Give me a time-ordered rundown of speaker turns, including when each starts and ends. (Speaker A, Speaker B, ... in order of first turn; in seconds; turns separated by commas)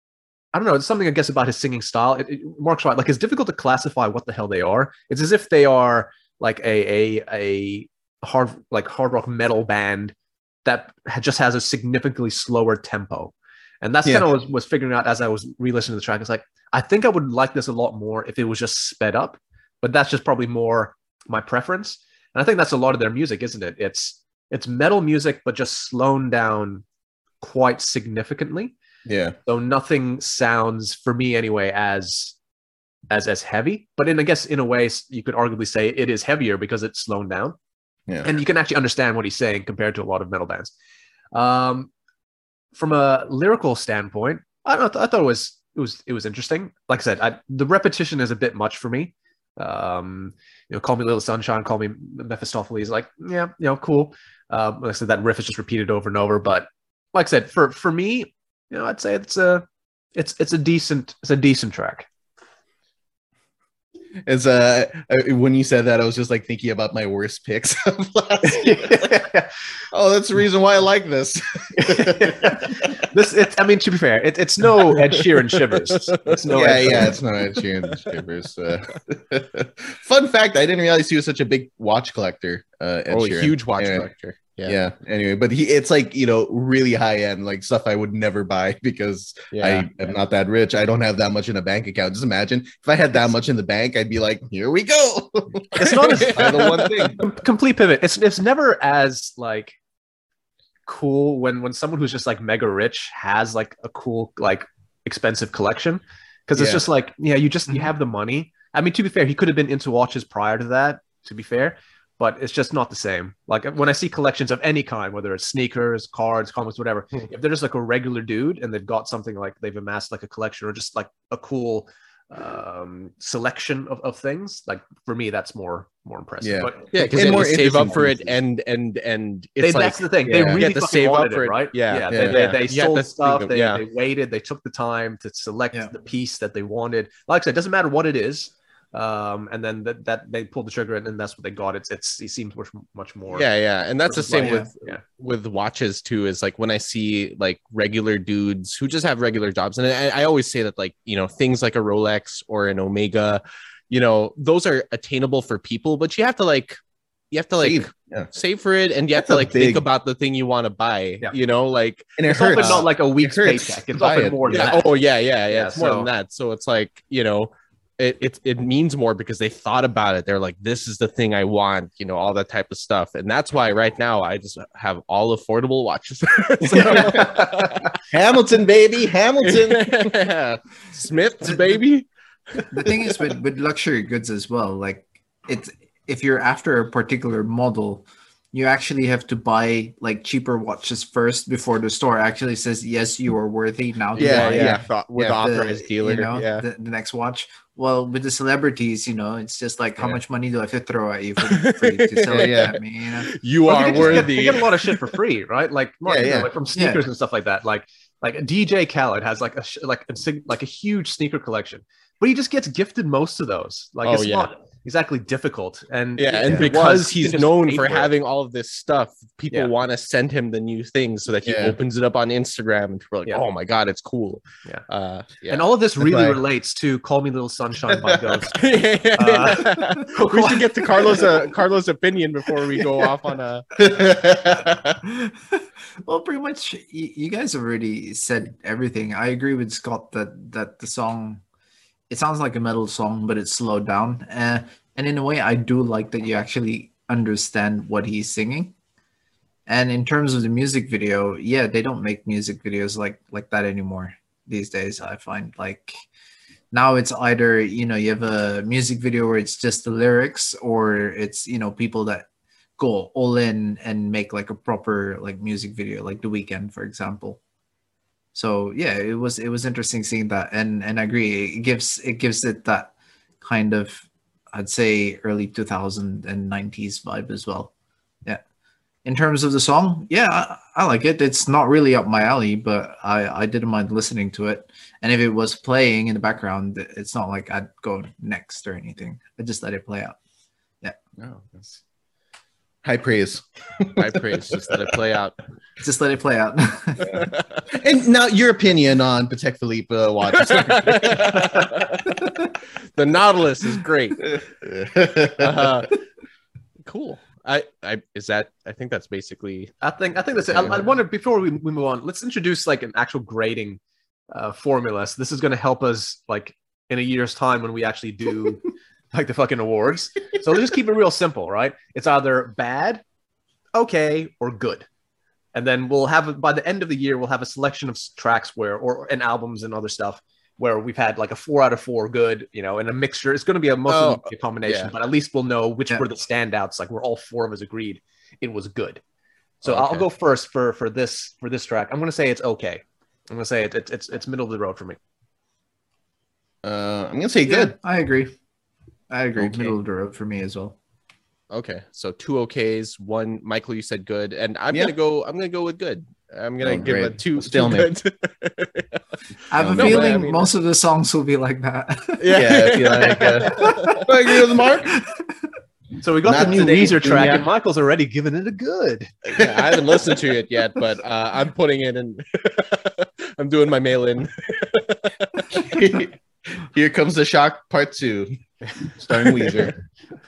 Speaker A: 0.5-10.1, Speaker A: 10.6-26.8, Speaker A: 27.4-28.7, Speaker B: 29.1-29.4, Speaker A: 29.4-32.4, Speaker A: 33.1-37.6, Speaker A: 38.2-40.7, Speaker A: 41.3-41.9, Speaker A: 42.7-62.1, Speaker B: 64.3-69.2, Speaker A: 68.4-69.5, Speaker B: 69.9-72.7, Speaker A: 71.8-77.1, Speaker B: 76.5-84.1, Speaker C: 83.1-84.8, Speaker B: 84.6-97.2, Speaker C: 89.5-89.8, Speaker A: 95.8-99.8, Speaker C: 96.2-97.0, Speaker A: 100.8-127.7, Speaker C: 106.5-106.8, Speaker B: 126.4-128.3, Speaker C: 126.9-133.8, Speaker A: 129.6-143.5, Speaker B: 130.3-130.6, Speaker B: 132.1-132.4, Speaker C: 143.3-156.8, Speaker A: 144.1-145.0, Speaker D: 144.3-144.7, Speaker C: 157.3-162.9, Speaker B: 157.6-158.3, Speaker B: 159.2-159.8, Speaker B: 162.2-164.7, Speaker A: 162.2-164.9, Speaker C: 164.4-177.8, Speaker A: 165.5-166.1, Speaker A: 176.7-177.7, Speaker B: 176.8-177.4, Speaker B: 178.1-180.1, Speaker C: 179.4-182.1, Speaker D: 181.4-181.8, Speaker C: 182.6-182.9, Speaker D: 182.7-203.3, Speaker C: 194.2-196.6, Speaker C: 201.4-204.9, Speaker A: 203.7-218.1, Speaker D: 203.9-204.3, Speaker C: 206.1-206.5, Speaker D: 206.7-207.0, Speaker C: 214.0-214.5, Speaker C: 216.2-225.7, Speaker B: 221.4-221.8, Speaker A: 225.5-228.6, Speaker B: 226.0-226.4, Speaker B: 227.9-228.3, Speaker C: 228.6-233.7, Speaker A: 229.1-230.7, Speaker B: 233.9-235.0, Speaker D: 235.0-235.5, Speaker D: 236.0-241.4, Speaker D: 242.1-248.7, Speaker D: 249.7-255.9, Speaker D: 256.7-262.2, Speaker D: 262.8-267.4, Speaker D: 268.3-277.7, Speaker D: 279.0-290.1, Speaker B: 292.8-294.8, Speaker C: 294.0-295.4, Speaker D: 295.8-297.3, Speaker C: 297.2-297.6, Speaker B: 297.7-301.7, Speaker C: 300.4-302.1, Speaker C: 302.9-304.2, Speaker B: 304.2-305.7, Speaker C: 305.4-305.9, Speaker C: 306.9-309.7, Speaker A: 309.8-323.0, Speaker C: 310.5-310.9, Speaker A: 323.7-324.9, Speaker A: 325.5-339.0, Speaker C: 333.9-334.9, Speaker A: 339.6-345.0, Speaker C: 339.6-340.1, Speaker B: 346.6-347.8, Speaker D: 347.4-348.3, Speaker D: 349.1-350.8, Speaker B: 349.4-349.7, Speaker C: 351.5-358.9, Speaker B: 356.6-357.9, Speaker D: 359.5-363.7, Speaker B: 359.6-360.2, Speaker C: 359.6-360.5, Speaker C: 362.2-364.1, Speaker B: 362.3-365.0, Speaker D: 364.7-365.3, Speaker A: 366.0-369.2, Speaker B: 366.2-367.5, Speaker D: 366.3-366.8, Speaker C: 369.3-375.9, Speaker B: 369.4-370.0, Speaker B: 375.6-378.3, Speaker B: 379.0-379.7, Speaker C: 379.3-379.7